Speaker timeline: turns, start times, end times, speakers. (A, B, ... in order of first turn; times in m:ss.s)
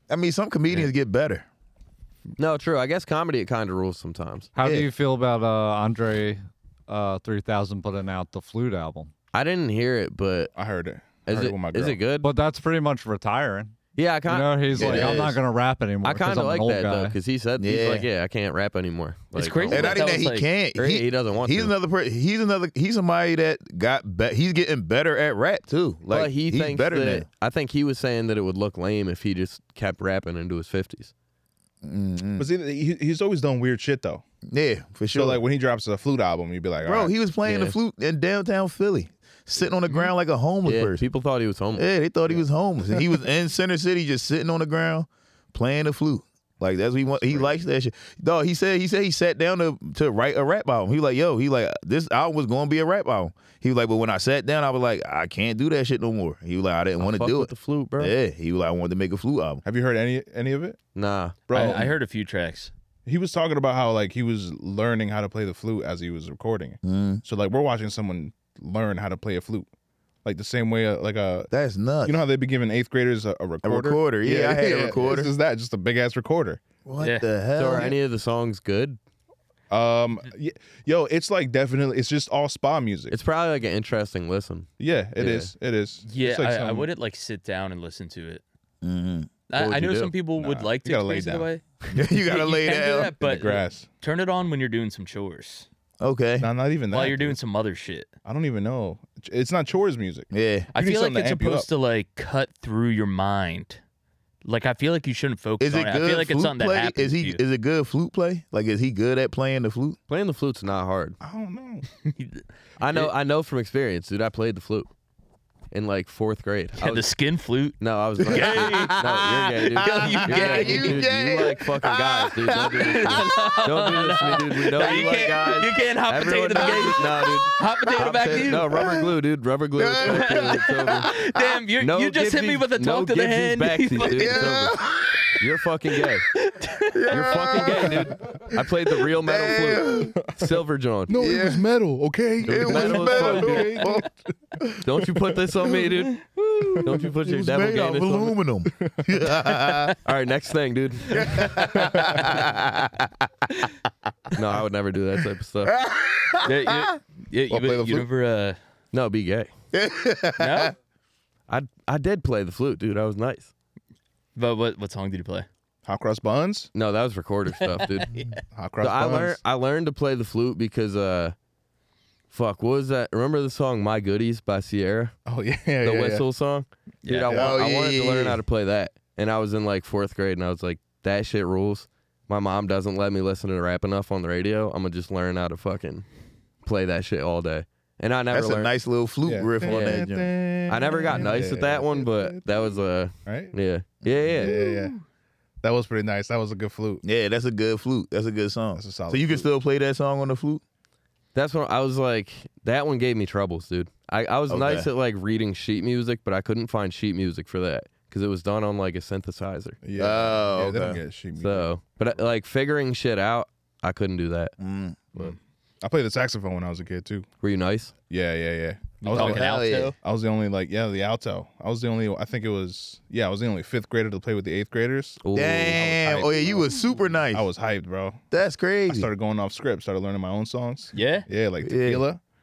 0:00.1-0:01.5 A
0:02.4-0:04.5 B
0:04.6-0:09.1 C
0:04.6-0:04.9 A
0:09.3-0:10.5 B
0:10.6-0:12.0 D
0:11.3-0:12.3 B
0:12.2-0:17.2 C
0:14.0-0:15.4 B
0:14.8-0:15.3 A
0:16.0-0:20.0 B
0:17.6-0:18.1 A
0:19.3-0:20.5 E
0:19.7-0:27.3 A
0:20.8-0:21.7 B
0:26.1-0:31.1 B
0:31.8-0:32.5 A
0:32.4-0:34.2 D
0:34.5-0:35.4 A
0:35.1-0:37.1 D
0:36.8-0:41.0 A
0:37.4-0:37.8 B
0:40.6-0:42.4 B
0:41.8-0:59.6 A
0:57.0-0:58.2 B
0:59.6-1:00.8 D
1:01.0-1:01.5 B
1:01.5-1:01.9 D
1:01.5-1:02.7 E
1:03.1-1:09.7 D
1:06.8-1:07.2 A
1:10.2-1:11.5 D
1:11.5-1:12.2 A
1:12.0-1:16.6 D
1:13.6-1:15.3 A
1:16.8-1:18.0 A
1:17.0-1:17.3 E
1:17.6-1:19.0 B
1:19.7-1:23.2 D
1:23.1-1:25.5 B
1:24.8-1:26.9 D
1:26.1-1:28.4 E
1:28.8-1:29.3 A
1:29.5-1:31.6 E
1:29.6-1:30.1 B
1:30.4-1:31.5 D
1:31.9-1:33.5 A
1:32.2-1:35.7 E
1:33.3-1:33.9 D
1:36.0-1:36.5 A
1:36.4-1:37.4 D
1:36.9-1:38.1 E
1:38.2-1:41.7 D
1:40.3-1:40.7 A
1:40.7-1:43.8 E
1:44.4-1:47.4 E
1:45.6-1:50.0 A
1:50.1-1:51.2 B
1:51.2-1:51.8 D
1:52.0-1:52.4 E
1:52.8-1:54.9 B
1:55.7-1:57.0 B
1:56.8-1:59.0 E
1:57.8-2:11.1 B
1:58.2-2:03.5 A
1:59.8-2:01.0 E
2:02.7-2:08.7 E
2:06.6-2:07.2 A
2:08.7-2:09.1 A
2:09.8-2:11.6 A
2:10.0-2:14.6 E
2:11.8-2:14.8 B
2:14.1-2:15.2 A
2:15.4-2:16.3 B
2:16.4-2:18.0 E
2:16.9-2:20.2 A
2:17.1-2:21.1 B
2:21.1-2:24.2 D
2:21.2-2:21.6 A
2:22.4-2:24.1 A
2:22.5-2:23.9 B
2:24.8-2:26.2 B
2:26.7-2:30.0 A
2:26.8-2:28.4 B
2:30.0-2:31.5 B
2:31.1-2:33.3 A
2:31.7-2:32.4 D
2:34.3-2:35.8 B
2:35.6-2:36.9 A
2:36.4-2:38.6 E
2:37.5-2:38.1 D
2:38.9-2:39.5 B
2:39.7-2:40.7 A
2:40.4-2:40.7 E
2:41.5-2:43.5 B
2:44.4-2:45.5 E
2:45.8-2:46.7 D
2:46.7-2:48.1 B
2:47.8-2:48.3 E
2:48.5-2:49.4 D
2:48.8-2:51.4 B
2:52.3-2:55.2 B
2:55.3-2:56.3 D
2:55.8-3:06.0 B
2:57.0-2:57.3 E
2:57.3-2:58.4 A
3:06.6-3:08.7 B
3:08.3-3:10.3 A
3:09.2-3:13.5 D
3:09.7-3:10.0 B
3:10.7-3:14.5 B
3:14.0-3:14.6 A
3:14.4-3:15.0 D
3:15.6-3:17.0 D
3:17.0-3:20.6 A
3:18.8-3:19.5 D
3:21.4-3:29.8 B
3:24.5-3:24.9 A
3:29.8-3:32.2 D
3:30.0-3:31.0 A
3:31.4-3:34.5 B
3:34.6-3:35.1 A
3:35.2-3:37.3 D
3:37.4-3:37.9 B
3:38.1-3:39.5 D
3:39.1-3:40.0 E
3:39.1-3:39.9 A
3:40.0-3:46.7 D
3:45.2-3:45.9 B
3:45.3-3:47.5 A
3:47.3-3:48.2 D
3:48.3-3:49.1 A
3:48.9-3:52.2 D
3:50.9-3:51.3 E
3:51.6-3:52.0 A